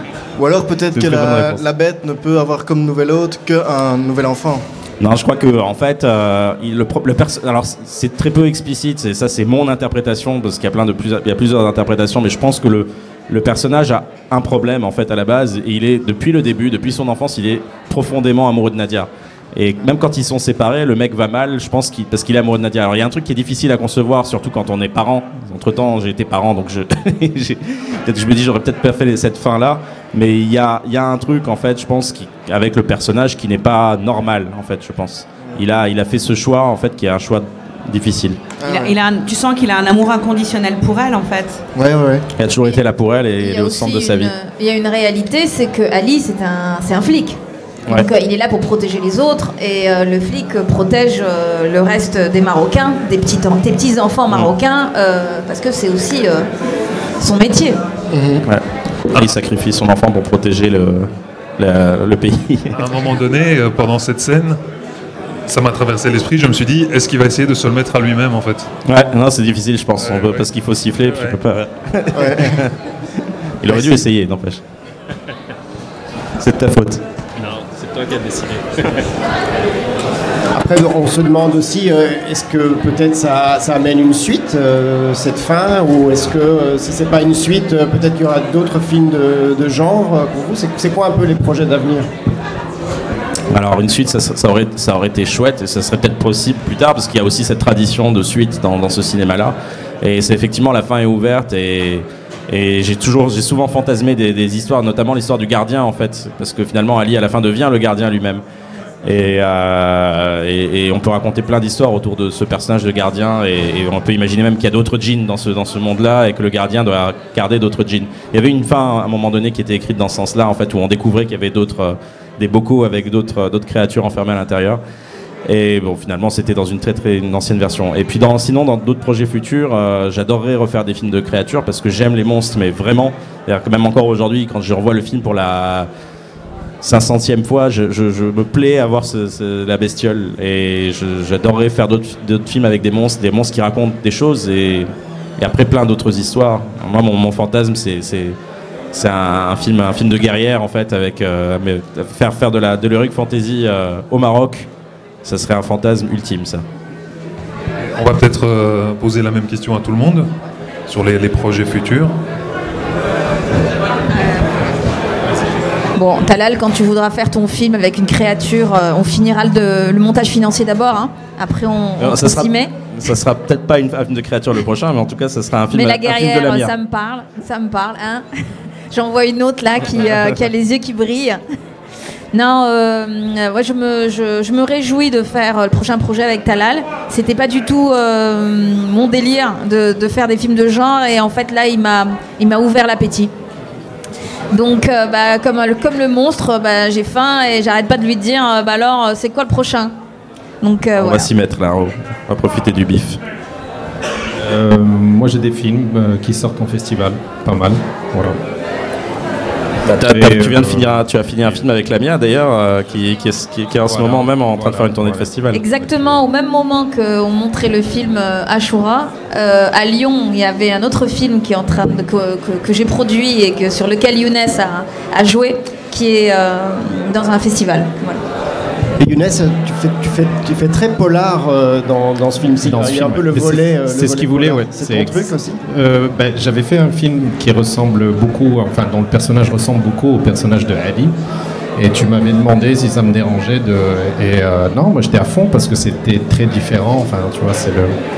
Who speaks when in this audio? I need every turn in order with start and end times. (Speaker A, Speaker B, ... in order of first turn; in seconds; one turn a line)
Speaker A: 0.4-4.6
Speaker B: 0.9-1.6
Speaker C: 5.0-38.5
Speaker A: 38.6-38.9
Speaker D: 38.6-41.6
Speaker A: 41.7-42.3
Speaker C: 42.4-44.3
Speaker E: 43.4-56.5
Speaker E: 57.2-57.8
Speaker A: 58.1-58.4
Speaker C: 58.4-62.7
Speaker F: 62.7-64.6
Speaker F: 65.5-68.7
Speaker C: 68.8-72.7
Speaker F: 70.0-70.4
Speaker F: 71.0-71.4
Speaker C: 73.6-74.6
Speaker C: 76.4-77.0
Speaker B: 77.4-79.0
Speaker G: 80.5-92.1
Speaker C: 93.5-108.4
Speaker C: 109.0-124.8
Speaker C: 125.5-135.9
Speaker C: 136.8-148.4
Speaker C: 148.9-154.7
Speaker C: 155.2-156.6
Speaker F: 157.9-160.3
Speaker F: 160.9-162.1
Speaker E: 165.9-172.7
Speaker C: 172.0-176.7
Speaker E: 175.7-178.2
Speaker E: 178.9-181.4
Speaker E: 182.3-193.3
Speaker E: 194.5-199.9
Speaker E: 200.6-201.3
Speaker C: 201.0-203.2
Speaker B: 204.4-208.4
Speaker C: 209.8-215.6
Speaker B: 210.0-211.6
Speaker B: 213.8-216.2
Speaker E: 215.5-228.2
Speaker G: 228.9-235.6
Speaker B: 232.6-241.1
Speaker B: 241.8-247.9